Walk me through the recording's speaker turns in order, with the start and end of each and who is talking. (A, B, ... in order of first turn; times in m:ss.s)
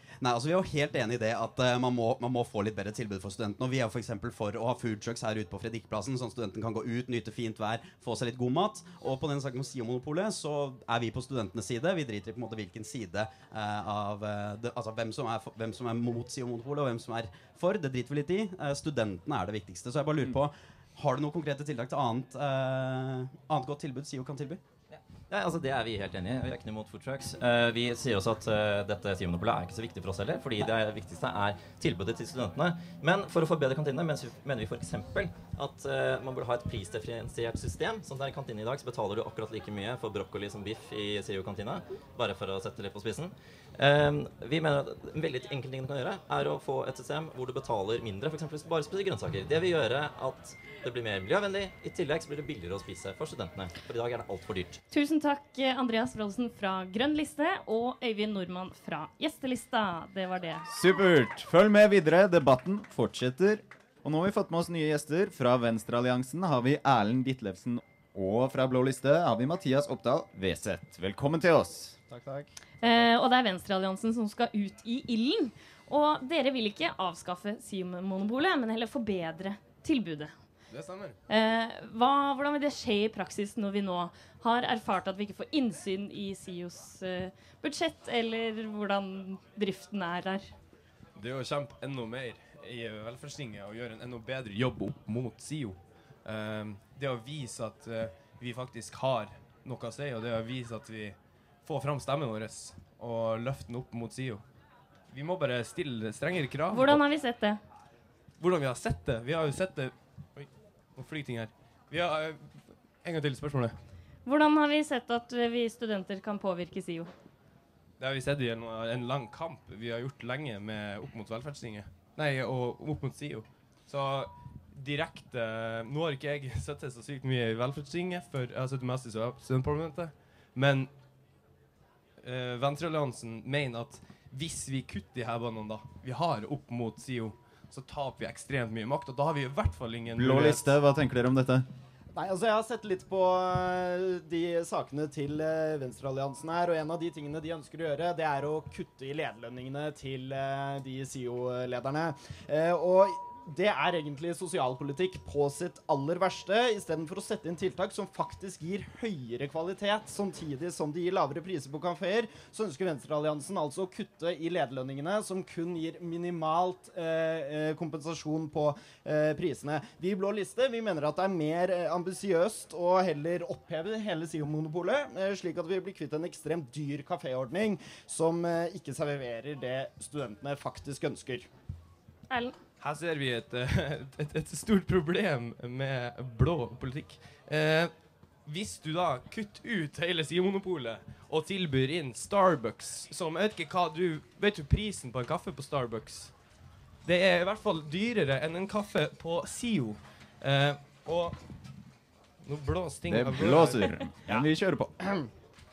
0:00.2-0:24.6 A
0:24.9-0:54.8 B
0:54.9-1:00.7 C
1:00.7-1:12.0 D
1:12.1-1:12.9 E
1:12.8-1:20.4 C
1:20.7-1:21.2 F
1:21.3-1:30.5 C
1:31.2-1:44.4 F
1:45.1-1:47.0 F
1:46.7-1:47.6 C
1:48.4-1:53.8 F
1:54.2-1:57.1 C
1:58.0-2:10.9 F
2:12.2-2:20.7 F
2:20.1-2:21.7 D
2:22.1-3:01.5 E
3:02.3-3:02.6 C
3:02.8-3:07.9 F
3:08.4-3:16.3 F
3:17.0-3:21.4 F
3:22.4-3:24.1 F
3:23.0-3:24.9 D
3:25.0-3:25.3 E